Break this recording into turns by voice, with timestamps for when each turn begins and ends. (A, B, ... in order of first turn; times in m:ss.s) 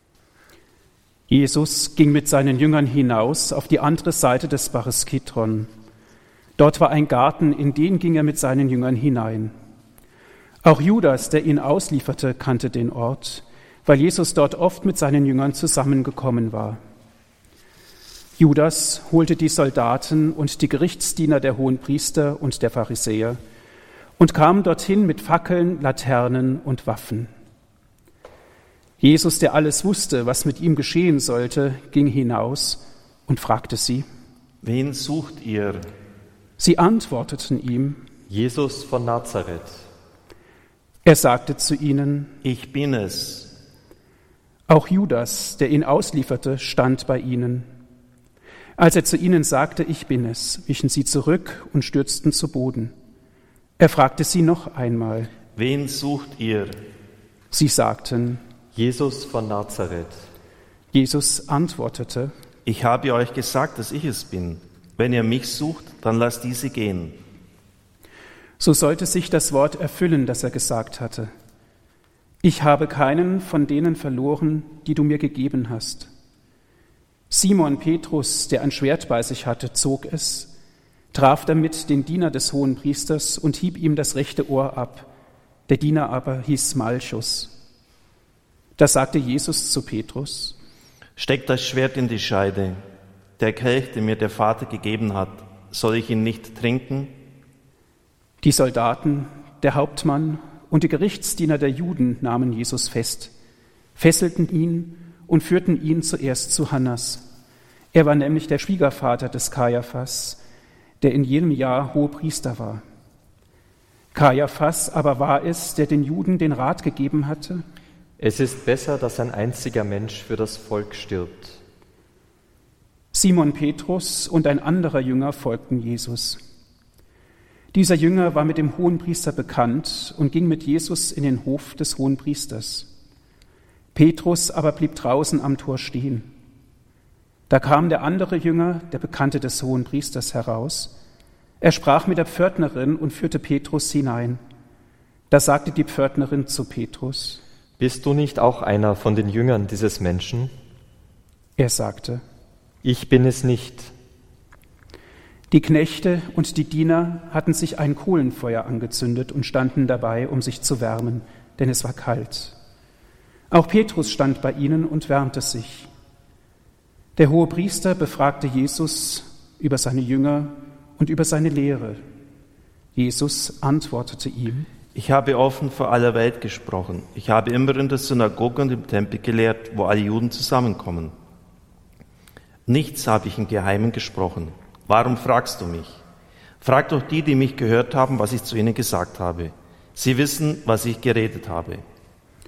0:01.3-0:05.7 A
0:06.6-0:09.5 A
0:10.6-0:16.8 A
0:18.4-0:23.4 A
0:24.2-0:27.3 A
0:29.0-0:34.0 A
0:34.6-0:35.8 B
0:36.6-0:38.0 A
0:38.3-0:39.8 C
0:41.0-0:42.4 A
0:42.4-0:43.5 B
0:44.7-0:47.7 A
0:48.8-0:52.9 A
0:53.8-0:55.3 A
0:55.5-0:56.8 B
0:57.5-0:58.4 A
0:58.7-1:00.2 C
1:00.9-1:02.3 A
1:02.6-1:07.2 B
1:08.6-1:11.3 A
1:12.4-1:16.1 A
1:17.3-1:20.5 A
1:21.1-1:25.1 A
1:25.7-1:27.5 A
1:28.8-1:30.6 A
1:31.2-1:32.8 B
1:33.4-1:37.1 B
1:38.4-1:43.3 A
1:44.0-1:47.2 A
1:47.9-1:50.4 A
1:51.0-1:52.8 A
1:54.1-1:57.6 A
1:58.2-2:01.6 C
2:03.1-2:06.4 A
2:07.7-2:12.9 A
2:13.9-2:16.3 A
2:17.5-2:20.9 A
2:21.6-2:24.4 A
2:25.3-2:27.4 A
2:27.8-2:30.5 C
2:31.6-2:32.2 A
2:32.8-2:33.9 C
2:35.5-2:42.6 A
2:43.5-2:45.9 A
2:47.2-2:52.0 A
2:52.9-2:54.7 A
2:54.9-3:01.1 B
3:02.7-3:06.0 B
3:06.6-3:11.8 B